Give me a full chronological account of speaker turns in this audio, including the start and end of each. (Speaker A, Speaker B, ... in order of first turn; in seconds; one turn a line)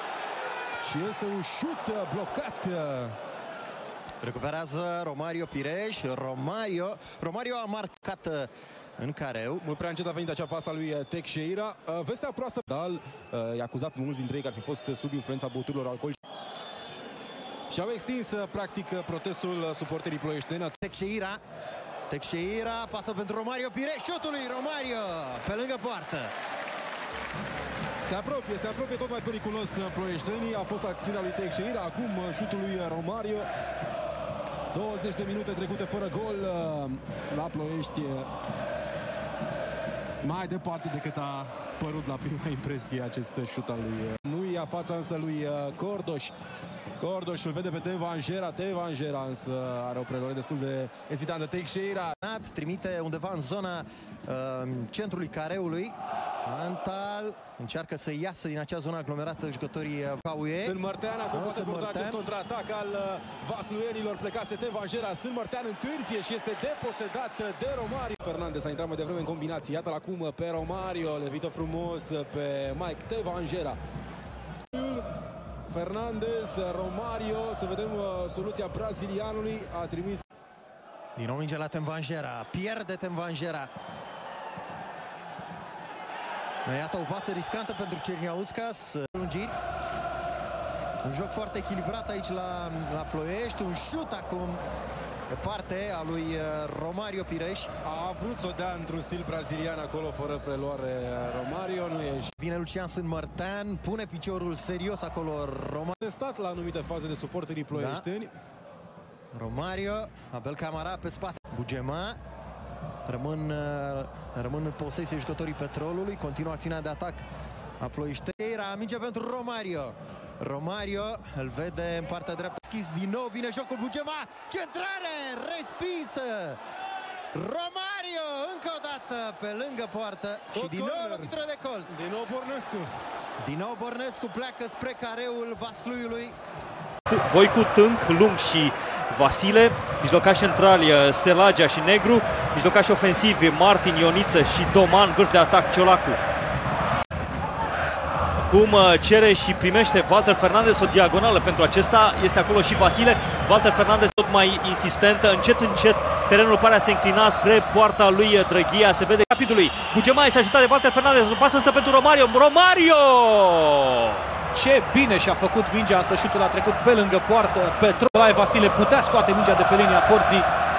Speaker A: 0.8-3.1
Speaker B: 4.2-9.6
Speaker A: 9.6-16.2
Speaker A: 17.7-20.7
Speaker B: 20.8-21.4
Speaker B: 22.1-26.3
Speaker A: 28.0-33.5
Speaker A: 34.7-38.3
Speaker A: 40.2-46.3
Speaker A: 47.0-52.1
Speaker B: 52.2-60.8
Speaker A: 60.6-73.8
Speaker B: 61.3-62.2
Speaker A: 74.7-75.0
Speaker A: 75.7-80.2
Speaker B: 81.2-83.7
Speaker B: 86.7-89.5
Speaker B: 91.0-94.6
Speaker B: 95.3-97.7
Speaker A: 97.8-102.3
Speaker B: 102.4-106.0
Speaker A: 106.0-108.3
Speaker B: 107.7-108.1
Speaker B: 109.3-112.2
Speaker B: 113.1-117.3
Speaker B: 117.8-126.6
Speaker B: 127.3-132.0
Speaker A: 130.5-131.3
Speaker A: 131.9-132.9
Speaker B: 133.4-136.3
Speaker C: 137.1-146.2
Speaker C: 148.4-164.2
Speaker D: 164.5-170.5